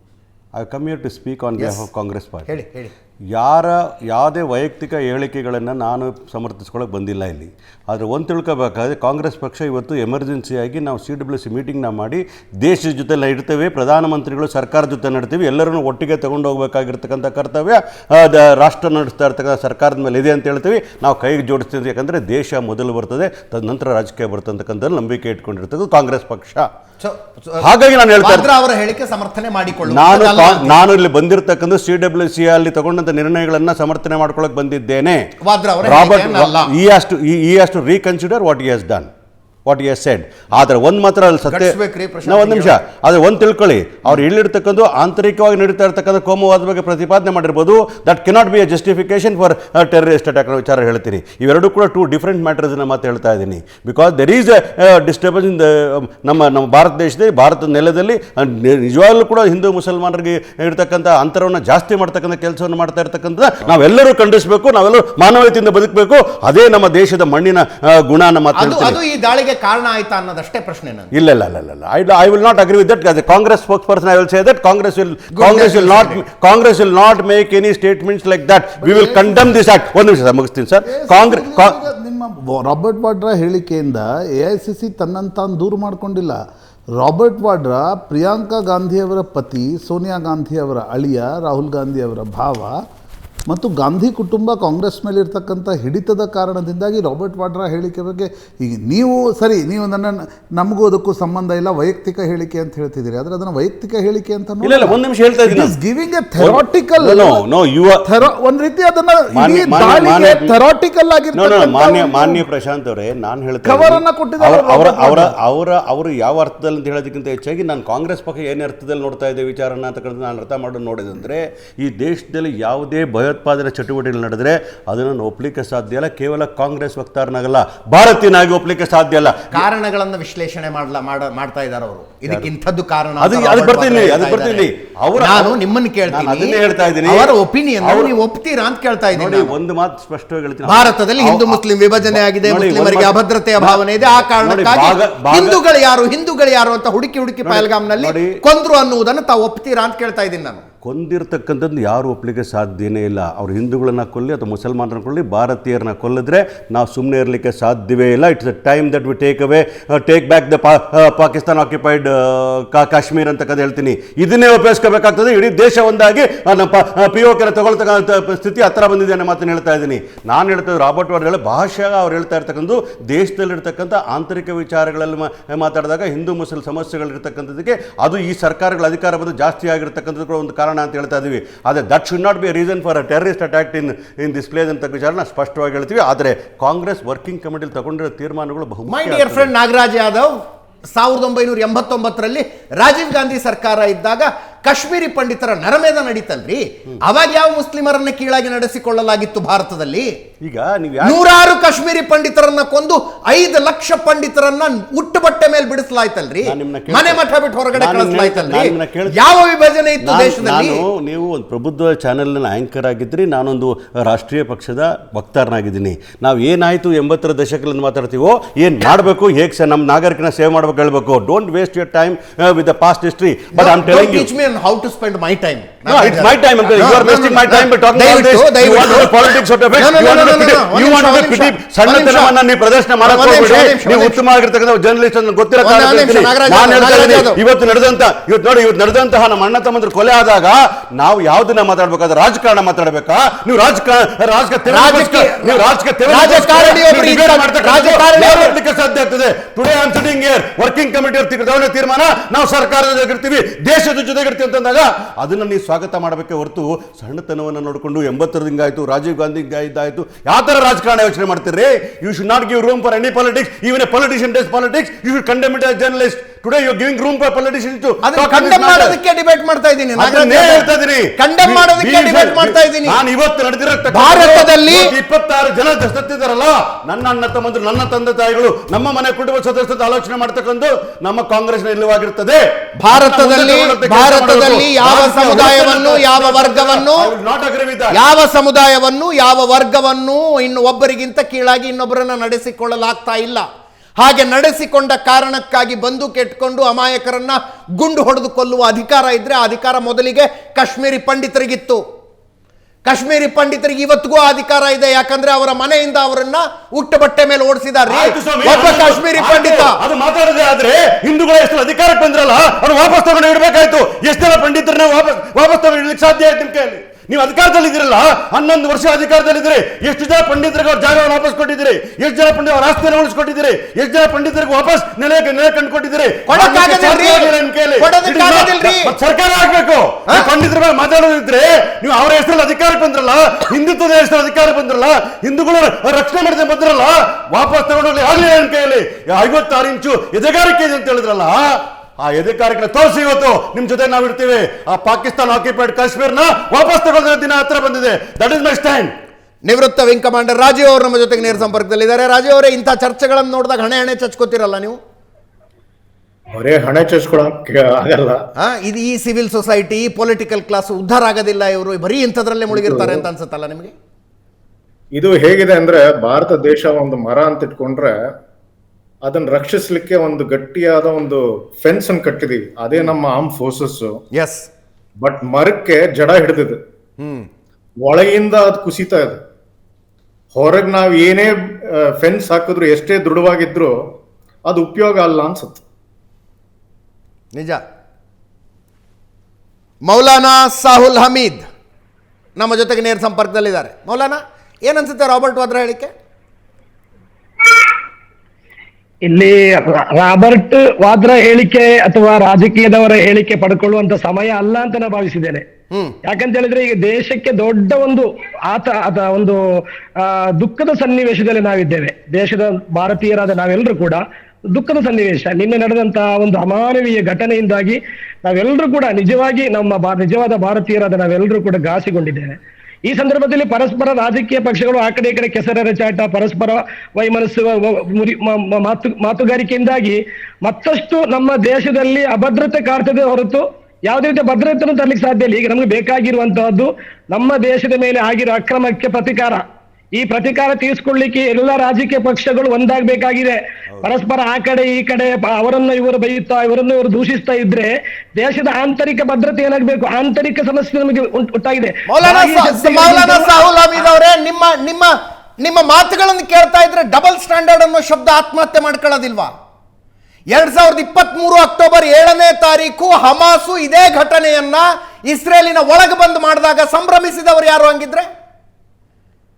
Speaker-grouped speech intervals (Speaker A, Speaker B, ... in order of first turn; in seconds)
Speaker A: 0.5-2.5, 3.3-26.7, 27.6-28.5, 29.9-35.2, 35.8-39.1, 39.6-69.0, 71.1-81.8, 104.6-105.7, 106.4-108.1, 109.3-110.6, 111.3-129.6, 133.2-135.6, 136.1-138.1, 139.1-145.6, 147.4-148.4, 150.8-189.5, 200.4-201.2, 206.4-209.1, 210.0-224.3, 225.9-269.0, 269.9-287.9, 307.9-348.9
Speaker B: 1.6-1.9, 2.5-2.9, 27.0-27.6, 28.2-30.8, 35.4-36.7, 41.5-42.8, 68.5-71.1, 75.3-76.2, 129.5-139.5, 140.7-150.7, 188.9-190.3, 190.9-200.1, 201.0-210.8, 223.6-232.3, 233.0-234.2, 235.6-237.4, 244.7-248.5, 268.0-273.0, 273.9-274.9, 282.8-287.1, 287.9-293.4, 294.0-301.8, 302.9-309.8, 326.3-328.9, 349.4-354.8, 358.4-363.7, 374.1-374.5, 377.0-377.3, 387.3-387.6, 389.8-391.4, 392.4-395.9, 405.7-405.9, 451.9-459.3, 460.3-468.1
Speaker C: 78.8-79.5, 80.8-86.4, 87.0-92.8, 93.5-107.4, 108.0-112.4, 113.6-115.3
Speaker D: 356.3-358.2, 362.5-363.1, 364.9-367.9, 369.0-374.0, 375.0-376.6, 377.8-379.2, 380.3-383.7, 384.5-385.6
Speaker E: 399.1-405.4, 406.1-409.4, 410.0-414.0, 414.5-422.4, 422.9-439.4, 440.0-453.4